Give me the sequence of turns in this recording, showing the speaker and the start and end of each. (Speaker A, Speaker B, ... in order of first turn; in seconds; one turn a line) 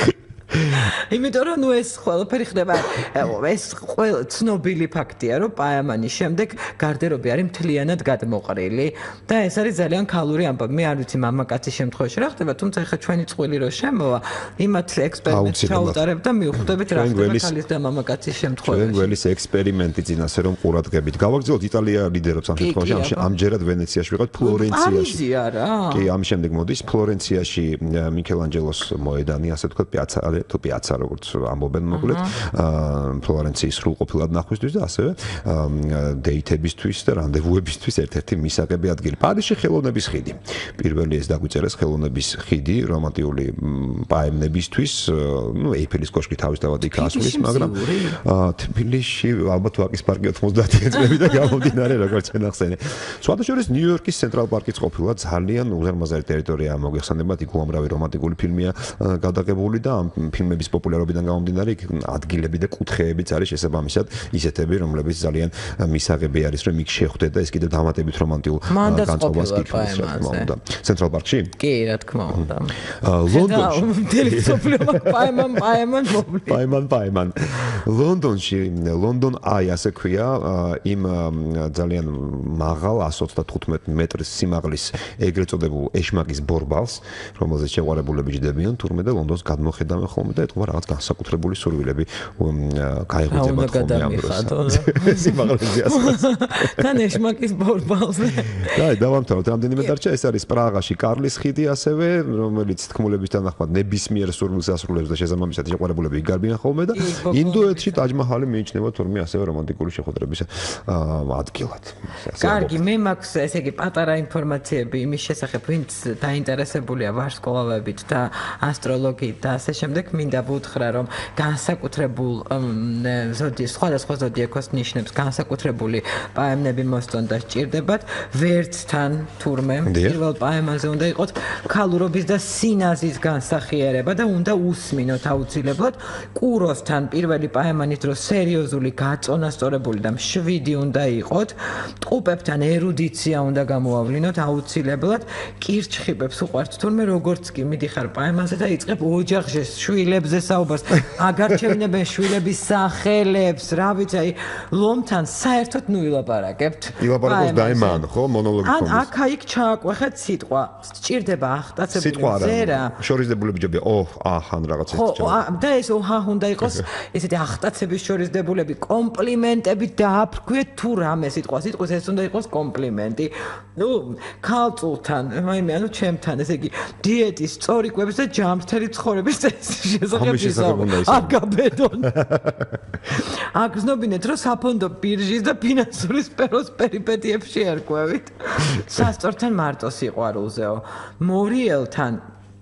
Speaker A: 0.6-19.1
Speaker B: 15.3-16.1
Speaker B: 16.8-17.5
Speaker B: 18.6-25.2
Speaker A: 22.6-23.3
Speaker A: 24.4-26.1
Speaker B: 25.9-71.5
Speaker A: 31.9-32.3
Speaker A: 46.8-48.2
Speaker A: 68.7-70.5
Speaker A: 71.6-72.8
Speaker B: 72.3-75.6
Speaker A: 73.3-76.6
Speaker B: 76.5-97.0
Speaker A: 93.3-98.8
Speaker B: 98.5-112.8
Speaker A: 107.0-108.0
Speaker A: 112.4-158.0
Speaker B: 129.9-130.2
Speaker B: 157.0-159.1
Speaker A: 158.6-163.0
Speaker B: 161.9-165.4
Speaker A: 164.9-182.1
Speaker B: 180.1-181.4
Speaker B: 182.0-182.8
Speaker A: 183.1-192.2